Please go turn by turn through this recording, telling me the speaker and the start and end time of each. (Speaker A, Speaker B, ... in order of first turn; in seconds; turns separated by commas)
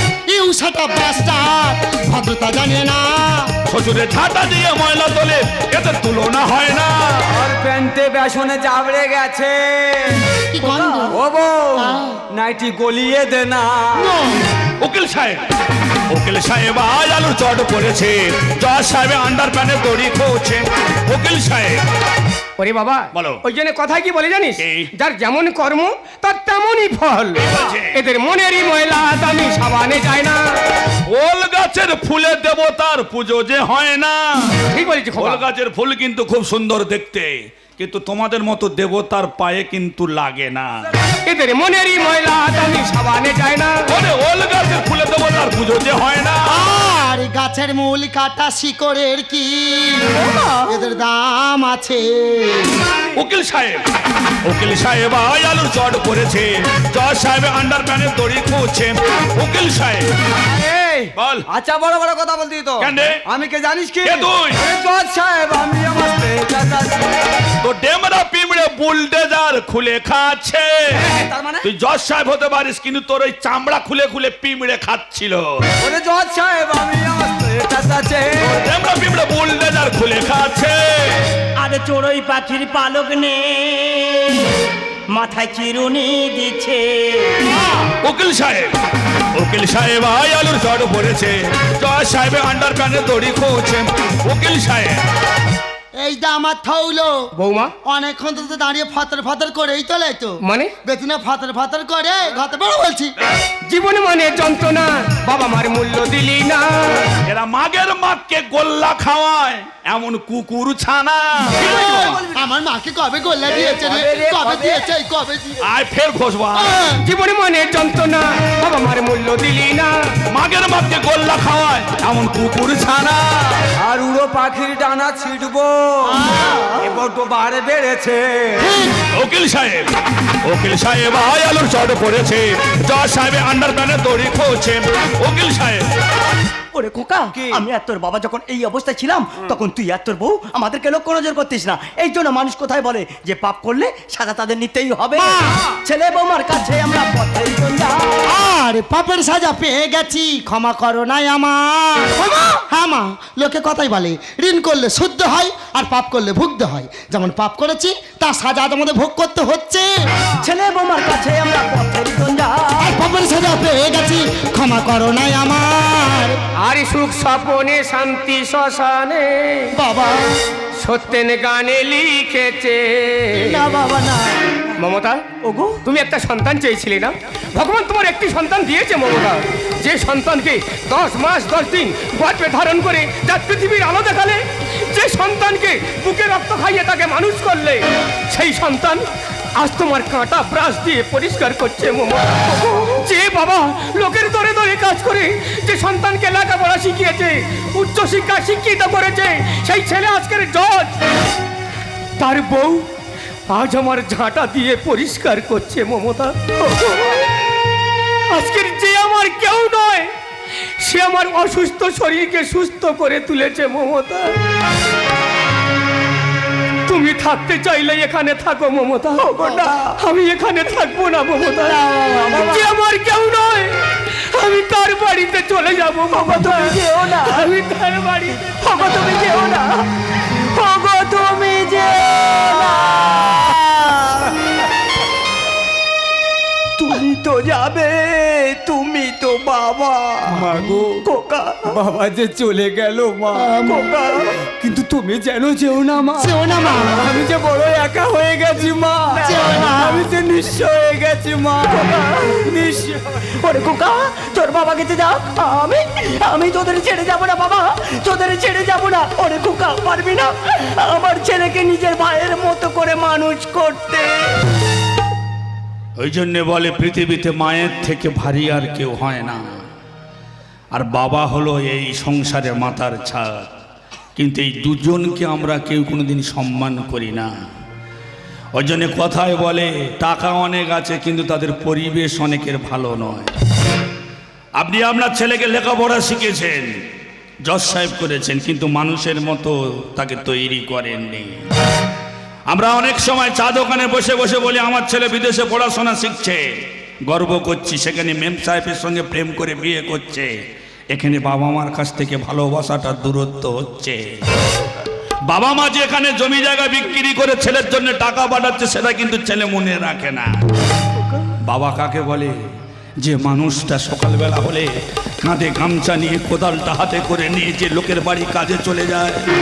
Speaker A: 0.3-3.5, Speaker B: 3.7-7.3, Speaker C: 7.3-14.1, Speaker A: 10.5-11.2, Speaker A: 11.8-12.2, Speaker A: 13.9-14.4, Speaker B: 14.8-15.4, Speaker B: 16.1-21.8, Speaker D: 22.6-30.4, Speaker B: 23.1-23.4, Speaker B: 24.6-24.9, Speaker B: 27.4-28.0, Speaker B: 31.1-40.7, Speaker D: 34.7-35.4, Speaker D: 41.2-43.9, Speaker B: 43.9-46.6, Speaker A: 46.5-52.8, Speaker B: 53.1-53.8, Speaker B: 54.5-60.1, Speaker C: 60.4-67.2, Speaker B: 61.1-61.5, Speaker B: 62.8-63.2, Speaker B: 64.0-64.6, Speaker B: 67.6-71.0, Speaker C: 70.9-71.7, Speaker B: 71.6-75.7, Speaker C: 75.8-78.5, Speaker B: 78.4-81.2, Speaker E: 81.6-87.6, Speaker B: 88.0-88.7, Speaker B: 89.3-95.0, Speaker A: 96.0-97.3, Speaker D: 97.3-97.7, Speaker A: 97.8-103.1, Speaker D: 100.4-100.7, Speaker D: 103.7-107.1, Speaker B: 107.2-112.2, Speaker C: 111.5-112.4, Speaker A: 111.6-115.7, Speaker C: 113.6-114.2, Speaker E: 113.6-114.8, Speaker B: 115.6-116.7, Speaker A: 116.5-117.0, Speaker D: 117.0-119.9, Speaker B: 120.3-123.7, Speaker C: 123.8-128.7, Speaker A: 126.0-127.0, Speaker A: 128.6-129.0, Speaker B: 129.1-129.9, Speaker B: 130.4-135.9, Speaker E: 136.7-148.3, Speaker C: 137.3-137.6, Speaker A: 145.1-145.7, Speaker A: 148.2-159.9, Speaker E: 152.2-152.6, Speaker E: 160.4-162.9, Speaker A: 162.8-166.4, Speaker D: 166.6-169.7, Speaker A: 169.8-170.4, Speaker D: 170.8-173.6, Speaker A: 173.3-174.6, Speaker D: 174.8-175.2, Speaker E: 175.4-175.8, Speaker D: 175.8-189.0, Speaker D: 189.6-201.0, Speaker D: 202.2-202.9, Speaker D: 203.5-207.3, Speaker D: 208.3-210.1, Speaker D: 210.8-214.4, Speaker D: 216.8-228.7, Speaker E: 219.3-219.8, Speaker A: 221.5-222.6, Speaker E: 222.1-222.7, Speaker E: 226.1-227.6, Speaker E: 228.4-234.3, Speaker E: 236.8-240.5, Speaker C: 240.3-241.0, Speaker A: 240.5-240.9, Speaker E: 241.0-241.8, Speaker C: 241.7-243.5, Speaker A: 243.3-243.9, Speaker E: 243.7-244.4, Speaker C: 244.5-253.2, Speaker A: 246.2-247.1, Speaker E: 249.1-249.8, Speaker A: 249.2-250.1, Speaker E: 251.7-252.4, Speaker E: 253.3-264.4, Speaker B: 266.0-269.6, Speaker B: 270.7-273.5, Speaker B: 274.1-277.3, Speaker B: 278.6-283.3, Speaker B: 284.6-286.7, Speaker B: 287.4-291.4, Speaker B: 292.5-296.4, Speaker B: 297.1-300.3, Speaker B: 300.9-304.1, Speaker B: 305.3-310.3, Speaker B: 311.4-312.4, Speaker B: 313.0-314.7, Speaker B: 315.2-319.2